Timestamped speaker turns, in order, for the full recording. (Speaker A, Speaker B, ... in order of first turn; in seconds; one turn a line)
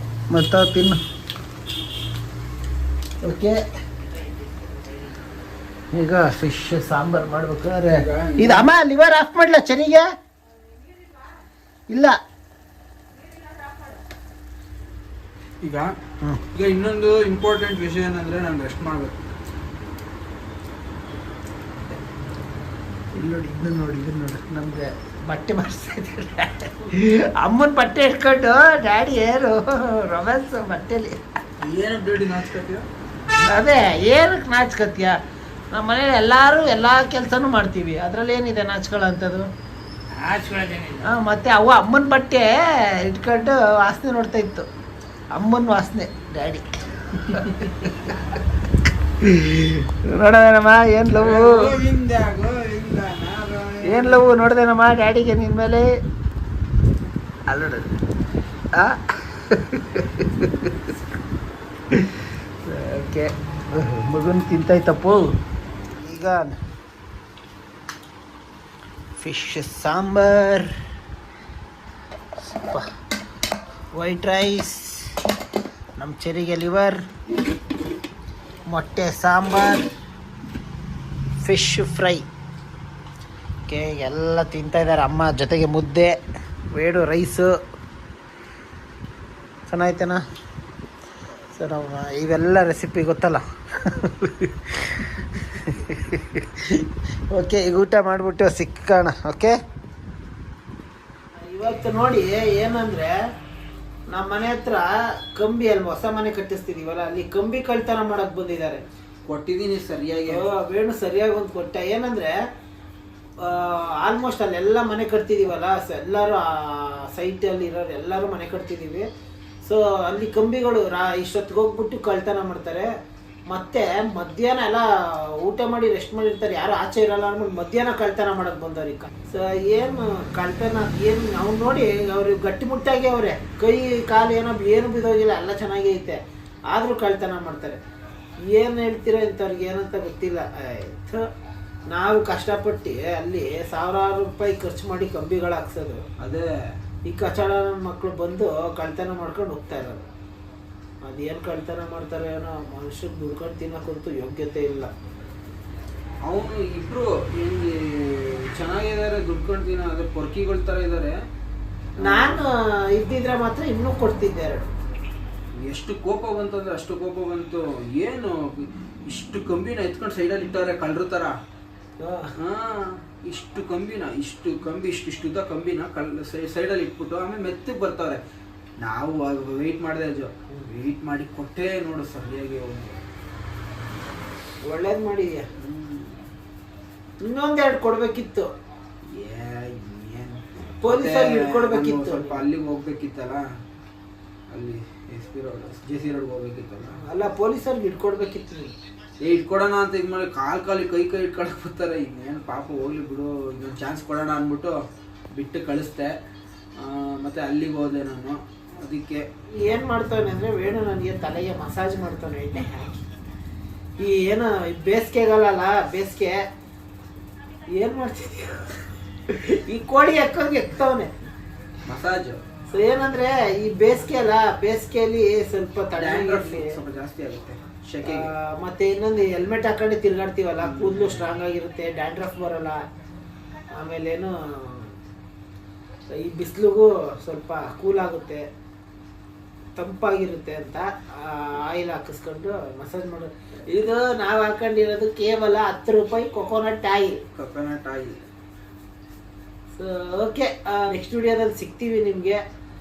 Speaker A: 0.3-1.0
Speaker A: 3.2-3.6
Speaker A: 5.9-10.1
Speaker B: 7.9-8.7
Speaker A: 11.9-12.1
Speaker B: 15.6-15.9
Speaker B: 16.5-19.1
Speaker A: 23.1-31.2
Speaker B: 31.6-32.9
Speaker A: 33.4-35.1
Speaker A: 35.7-39.5
Speaker B: 40.1-41.0
Speaker A: 41.0-42.5
Speaker A: 43.0-44.7
Speaker A: 45.3-48.1
Speaker A: 49.2-51.7
Speaker B: 51.1-54.3
Speaker A: 53.9-55.8
Speaker A: 57.5-58.0
Speaker A: 58.8-60.7
Speaker A: 62.6-65.3
Speaker A: 65.9-66.5
Speaker A: 69.2-70.7
Speaker A: 72.5-72.8
Speaker A: 74.0-75.1
Speaker A: 76.0-77.0
Speaker A: 78.7-79.8
Speaker A: 81.4-82.2
Speaker A: 83.7-86.2
Speaker A: 86.7-87.5
Speaker A: 89.7-90.2
Speaker A: 91.5-93.4
Speaker A: 94.2-96.8
Speaker A: 97.3-99.6
Speaker A: 101.4-103.1
Speaker A: 104.1-108.8
Speaker B: 109.2-110.4
Speaker A: 110.3-112.3
Speaker A: 113.4-119.1
Speaker A: 119.6-122.9
Speaker A: 123.5-124.8
Speaker A: 125.4-136.2
Speaker A: 136.7-137.8
Speaker A: 138.5-141.2
Speaker A: 141.9-146.0
Speaker B: 146.2-146.5
Speaker A: 147.1-150.0
Speaker A: 151.0-154.9
Speaker B: 156.2-161.2
Speaker B: 162.0-162.4
Speaker A: 162.0-164.7
Speaker B: 165.6-171.3
Speaker A: 172.0-172.3
Speaker B: 172.4-178.2
Speaker B: 178.8-183.0
Speaker A: 184.7-185.5
Speaker B: 185.6-186.2
Speaker A: 187.2-188.5
Speaker B: 189.1-193.4
Speaker A: 190.8-192.4
Speaker B: 194.5-196.9
Speaker A: 197.0-198.7
Speaker B: 199.2-204.8
Speaker B: 205.3-206.1
Speaker B: 206.8-209.2
Speaker A: 209.6-213.0
Speaker A: 214.0-216.4
Speaker A: 217.7-218.7
Speaker A: 219.3-221.1
Speaker B: 221.8-222.4
Speaker A: 222.7-226.8
Speaker B: 225.9-228.3
Speaker A: 228.0-232.8
Speaker B: 230.6-231.3
Speaker A: 233.7-234.9
Speaker A: 236.1-238.4
Speaker A: 239.8-247.2
Speaker B: 247.3-248.2
Speaker A: 249.8-252.4